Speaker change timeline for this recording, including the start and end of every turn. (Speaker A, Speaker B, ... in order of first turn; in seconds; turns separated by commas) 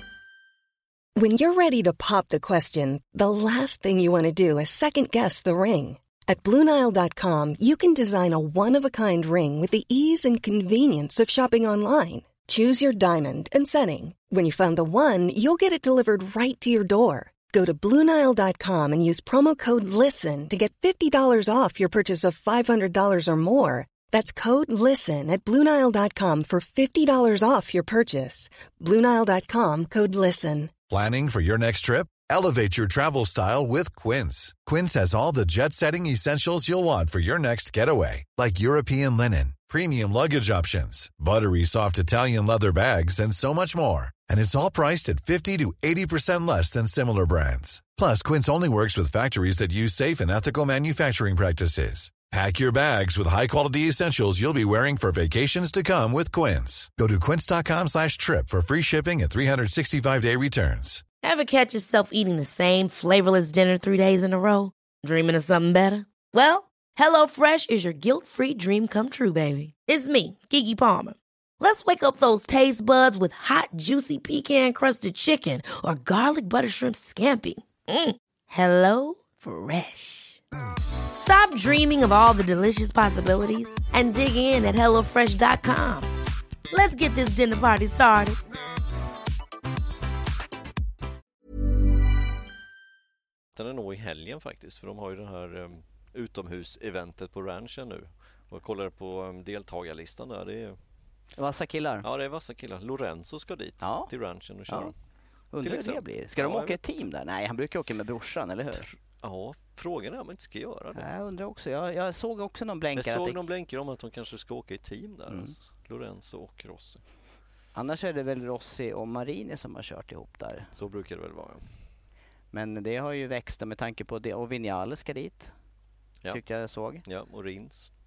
Speaker A: 1.2-30.7, Speaker B: 30.9-61.0, Speaker C: 61.2-80.4, Speaker C: 81.2-86.1, Speaker C: 86.7-88.4, Speaker D: 93.5-100.8, Speaker E: 101.3-102.0, Speaker D: 102.0-104.9, Speaker E: 103.8-104.1, Speaker E: 104.7-104.9, Speaker E: 105.5-108.9, Speaker D: 105.6-106.8, Speaker D: 108.7-111.1, Speaker E: 110.9-113.4, Speaker D: 112.9-117.0, Speaker E: 115.3-115.5, Speaker E: 117.7-120.7, Speaker D: 120.7-121.7, Speaker E: 122.5-125.5, Speaker E: 126.3-127.0, Speaker D: 127.0-127.9